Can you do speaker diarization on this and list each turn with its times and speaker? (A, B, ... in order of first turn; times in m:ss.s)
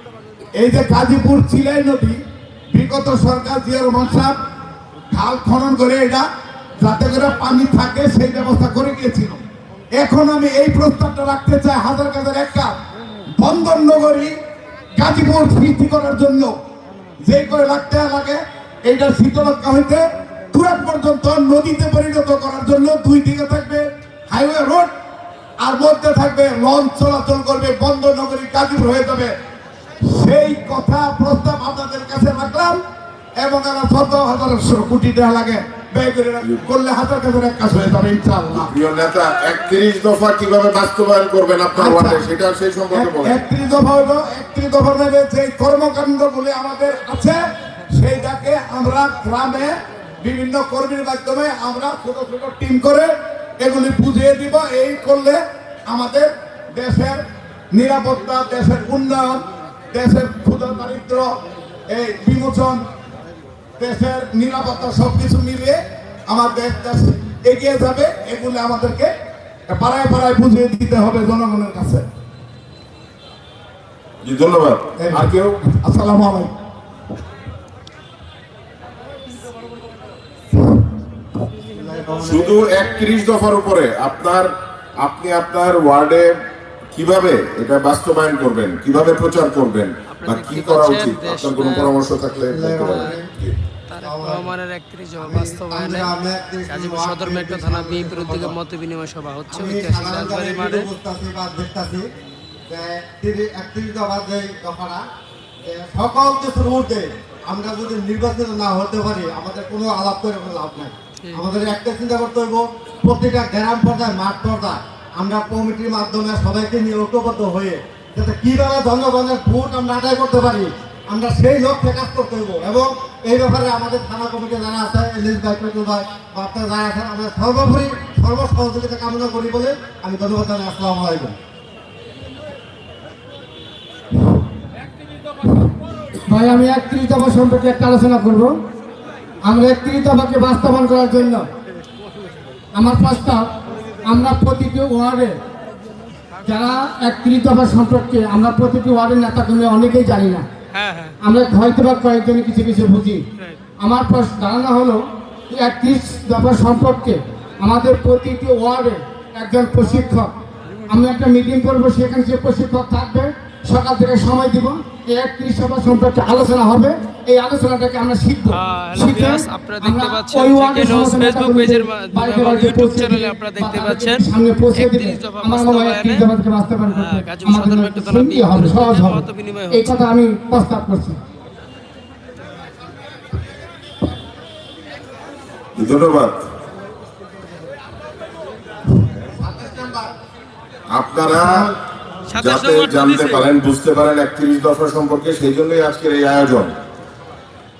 0:00.6-0:04.4 A
0:05.1-0:06.2 A
0:06.8-0:09.4 A
0:09.9-0:12.7 A
0:13.4-0:14.4 A
0:15.0-0:16.6 A
0:17.2-0:24.9 A
0:25.6-0:29.3 A
0:30.0-0:32.8 A
0:33.4-0:38.7 A
0:38.6-0:43.4 B
0:41.7-0:42.2 A
0:42.9-1:01.3 A
1:01.9-1:02.8 A
1:03.8-1:09.1 A
1:09.7-1:12.1 A
1:14.2-1:15.6 B
1:15.0-1:16.5 A
1:21.8-1:22.6 C
1:22.2-1:26.3 B
1:26.9-1:33.5 B
1:30.1-1:31.9 D
1:32.5-1:33.3 C
1:32.7-1:33.2 D
1:33.9-1:36.1 D
1:34.0-1:34.5 C
1:35.2-1:38.5 C
1:36.7-1:40.9 D
1:39.5-1:42.0 C
1:42.7-1:45.0 C
1:45.6-2:11.4 C
2:16.2-2:18.6 E
2:19.4-2:21.4 E
2:22.7-2:23.4 E
2:24.1-2:25.3 E
2:26.4-2:30.4 E
2:30.7-2:31.2 D
2:31.2-2:33.2 E
2:33.8-2:40.3 E
2:40.9-3:01.2 E
2:48.5-2:56.2 D
2:56.9-3:00.0 D
3:05.8-3:06.4 B
3:09.3-3:10.1 C
3:10.9-3:11.7 B
3:12.3-3:13.4 D
3:12.3-3:16.7 B